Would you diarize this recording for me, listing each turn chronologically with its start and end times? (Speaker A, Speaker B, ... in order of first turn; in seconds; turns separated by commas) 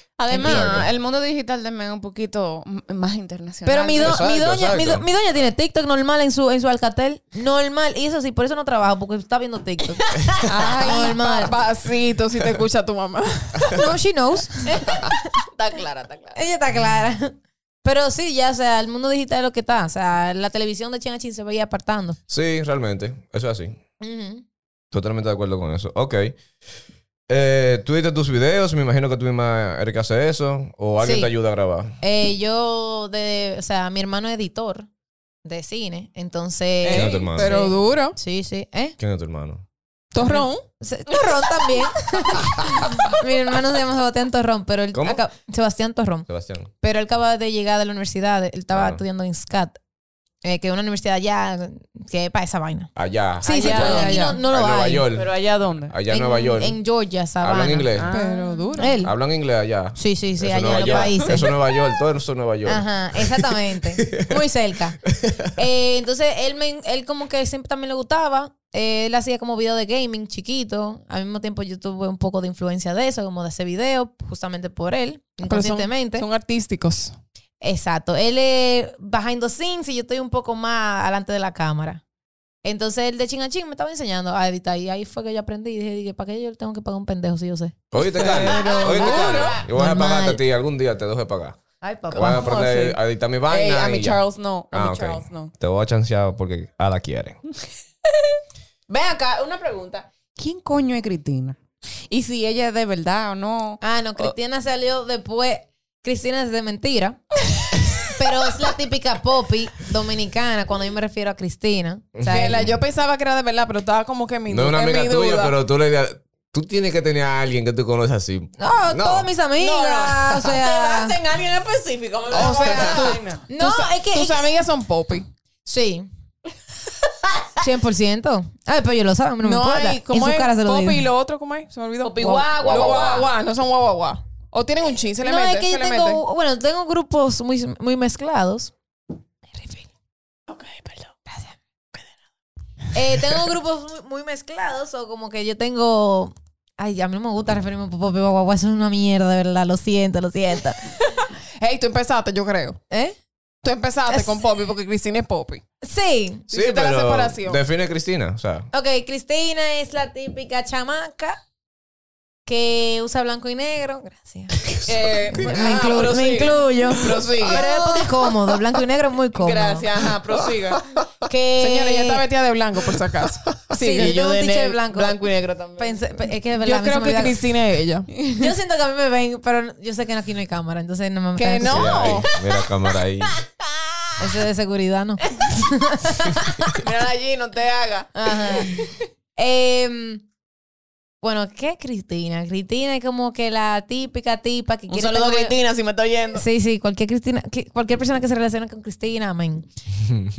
Speaker A: 0.2-4.2, Speaker B: 0.3-0.8, Speaker C: 0.4-0.9, Speaker B: 3.7-11.6, Speaker C: 4.0-5.1, Speaker A: 10.4-11.5, Speaker D: 10.7-13.8, Speaker B: 13.7-15.3, Speaker A: 14.7-16.4, Speaker B: 16.4-22.2, Speaker C: 22.3-23.8, Speaker B: 24.0-24.4, Speaker C: 24.9-26.4, Speaker C: 27.3-32.0, Speaker B: 31.0-31.3, Speaker B: 32.0-34.9, Speaker B: 35.5-39.0, Speaker D: 36.8-38.2, Speaker C: 36.9-37.6, Speaker C: 39.0-39.6, Speaker D: 40.1-40.6, Speaker B: 40.2-46.3, Speaker C: 44.9-45.2, Speaker C: 46.3-46.7, Speaker B: 46.8-49.8, Speaker C: 48.7-49.0, Speaker B: 50.4-52.9, Speaker C: 53.0-55.3, Speaker B: 53.4-55.1, Speaker A: 53.5-54.4, Speaker D: 53.8-54.4, Speaker A: 55.1-56.0, Speaker C: 55.9-56.8, Speaker B: 56.1-57.9, Speaker C: 57.4-58.1, Speaker A: 58.0-59.0, Speaker D: 58.1-59.0, Speaker B: 58.8-59.1, Speaker C: 59.0-64.4, Speaker B: 60.0-61.5, Speaker A: 60.7-61.4, Speaker B: 62.6-65.0, Speaker C: 65.1-65.5, Speaker B: 65.6-76.3, Speaker D: 75.5-77.2, Speaker B: 77.6-82.0, Speaker B: 82.6-90.4, Speaker C: 87.9-91.6, Speaker A: 88.0-89.7, Speaker D: 89.1-89.4, Speaker A: 91.8-92.9, Speaker B: 92.1-92.6, Speaker C: 92.1-97.4, Speaker A: 93.5-95.5, Speaker A: 98.9-104.3, Speaker B: 103.8-107.2, Speaker B: 108.1-112.7, Speaker C: 112.2-112.8, Speaker D: 112.3-115.5, Speaker C: 114.5-119.3, Speaker B: 118.6-121.2, Speaker A: 119.6-123.4, Speaker D: 122.3-125.3, Speaker B: 123.5-124.5, Speaker B: 125.7-126.1, Speaker A: 127.1-127.5, Speaker B: 127.6-131.1, Speaker D: 129.4-136.2, Speaker A: 132.0-133.3, Speaker B: 132.2-133.2, Speaker B: 135.2-138.7, Speaker B: 139.5-139.9, Speaker A: 140.5-141.1, Speaker B: 141.3-141.6, Speaker B: 142.9-151.0, Speaker D: 151.6-152.8, Speaker B: 152.9-153.2, Speaker D: 153.6-155.6, Speaker B: 154.1-154.5, Speaker B: 155.8-156.4, Speaker D: 156.5-157.6, Speaker C: 156.5-158.7, Speaker B: 158.7-161.4, Speaker B: 162.5-164.6, Speaker C: 164.6-165.8, Speaker A: 164.9-168.3, Speaker B: 165.3-169.9, Speaker A: 169.4-170.9, Speaker B: 171.2-172.2, Speaker D: 171.6-174.1, Speaker B: 173.7-175.2, Speaker A: 173.7-176.0, Speaker B: 175.8-177.4, Speaker D: 176.6-178.1, Speaker B: 178.2-182.2, Speaker D: 181.4-182.3, Speaker C: 181.6-183.4, Speaker B: 184.2-186.8, Speaker A: 186.7-188.9, Speaker B: 188.2-188.8, Speaker B: 189.4-190.2, Speaker B: 191.2-195.6, Speaker A: 194.9-196.4, Speaker B: 196.3-199.7